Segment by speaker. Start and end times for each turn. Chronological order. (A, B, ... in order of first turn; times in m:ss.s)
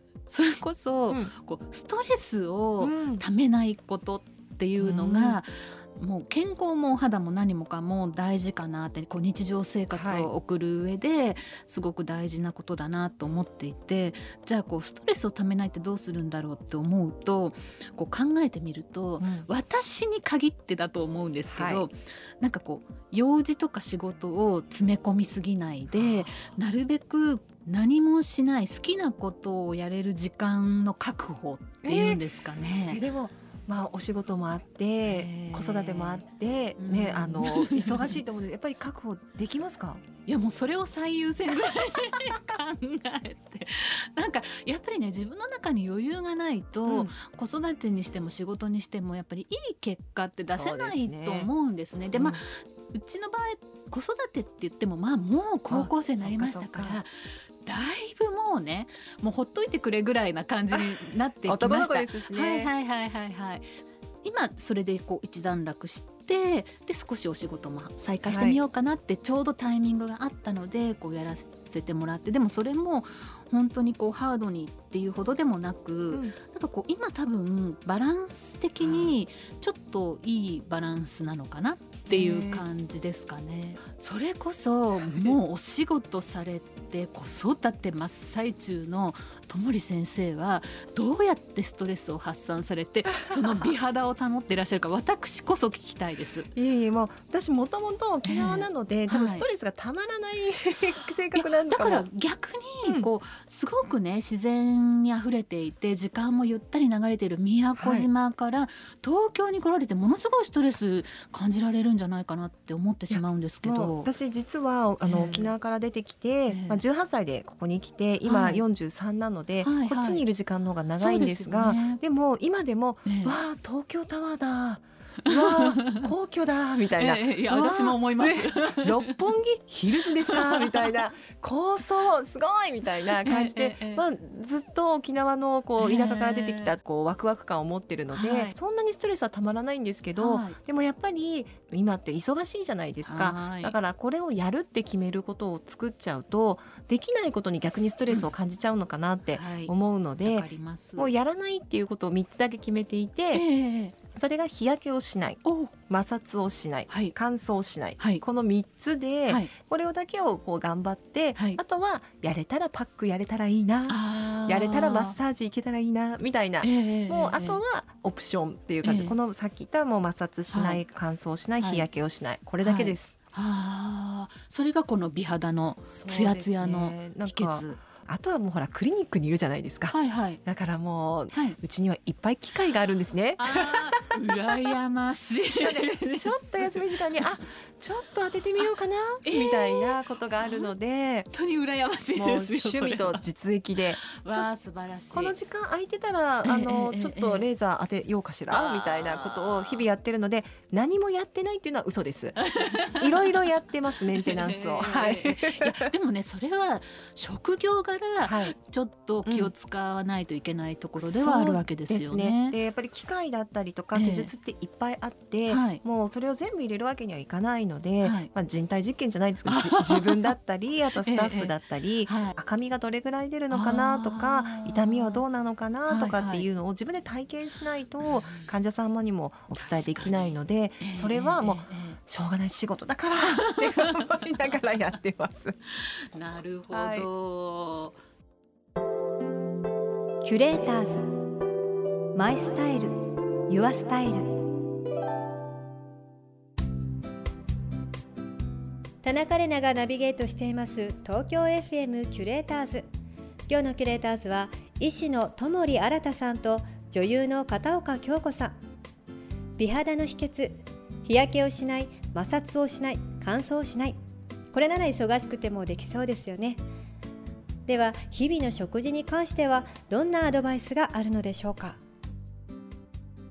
0:00.3-0:33.0 A
0:02.8-0:03.2 B
0:04.8-0:05.4 B
0:09.9-0:10.3 B
0:19.2-0:19.5 B
0:21.5-0:21.9 B
0:25.9-0:26.3 B
0:31.8-0:32.2 B
0:32.9-0:40.0 B
0:35.0-0:36.2 A
0:36.8-0:38.2 A
0:40.3-0:57.1 A
0:46.9-0:47.1 B
0:50.5-0:51.5 B
0:52.1-0:52.4 B
0:55.7-0:57.0 B
0:57.6-1:03.6 A
1:01.4-1:02.7 B
1:04.2-1:36.5 A
1:08.2-1:08.6 B
1:16.1-1:16.4 B
1:18.8-1:19.1 B
1:22.1-1:22.6 B
1:36.5-1:42.1 B
1:38.2-1:39.4 A
1:41.4-1:54.1 A
1:47.8-1:48.1 B
1:53.1-2:33.4 B
1:55.0-1:55.5 A
1:56.5-1:56.8 A
1:58.2-1:58.6 A
1:59.6-2:00.2 A
2:01.0-2:02.0 A
2:03.0-2:03.4 A
2:05.2-2:06.1 A
2:07.0-2:09.2 A
2:10.1-2:10.9 A
2:13.2-2:14.0 A
2:15.8-2:16.8 A
2:18.1-2:18.5 A
2:20.2-2:20.6 A
2:23.0-2:23.7 A
2:29.3-2:31.1 A
2:33.3-2:34.0 A
2:34.1-2:53.2 B
2:35.4-2:35.7 A
2:36.9-2:37.1 A
2:43.9-2:45.2 A
2:46.6-2:47.6 A
2:48.8-2:49.1 A
2:50.5-2:50.8 A
2:51.6-2:51.9 A
2:52.6-2:57.8 A
2:55.9-3:04.6 B
2:59.9-3:00.4 A
3:01.3-3:01.6 A
3:03.4-3:06.8 A
3:05.6-3:11.3 B
3:09.2-3:10.7 A
3:11.3-3:13.2 A
3:12.1-3:14.5 B
3:14.0-3:15.4 A
3:15.1-3:22.4 B
3:16.4-3:17.5 A
3:18.5-3:19.9 A
3:22.4-3:23.4 A
3:22.9-3:25.9 B
3:24.1-3:32.6 A
3:28.2-3:28.5 B
3:29.2-3:29.5 B
3:31.0-3:55.6 B
3:33.9-3:34.3 A
3:35.5-3:35.8 A
3:38.0-3:38.3 A
3:39.4-3:40.3 A
3:41.0-3:41.5 A
3:42.1-3:42.3 A
3:43.5-3:45.2 A
3:45.9-3:46.5 A
3:48.0-3:48.5 A
3:49.6-3:52.0 A
3:53.2-3:54.1 A
3:56.1-3:58.0 A
3:56.7-3:57.1 B
4:00.2-4:01.0 C
4:02.1-4:02.9 C
4:03.5-4:04.3 C
4:09.0-4:12.8 C
4:13.5-4:18.6 C
4:19.6-4:24.0 C
4:24.5-4:26.6 C
4:27.6-4:31.8 C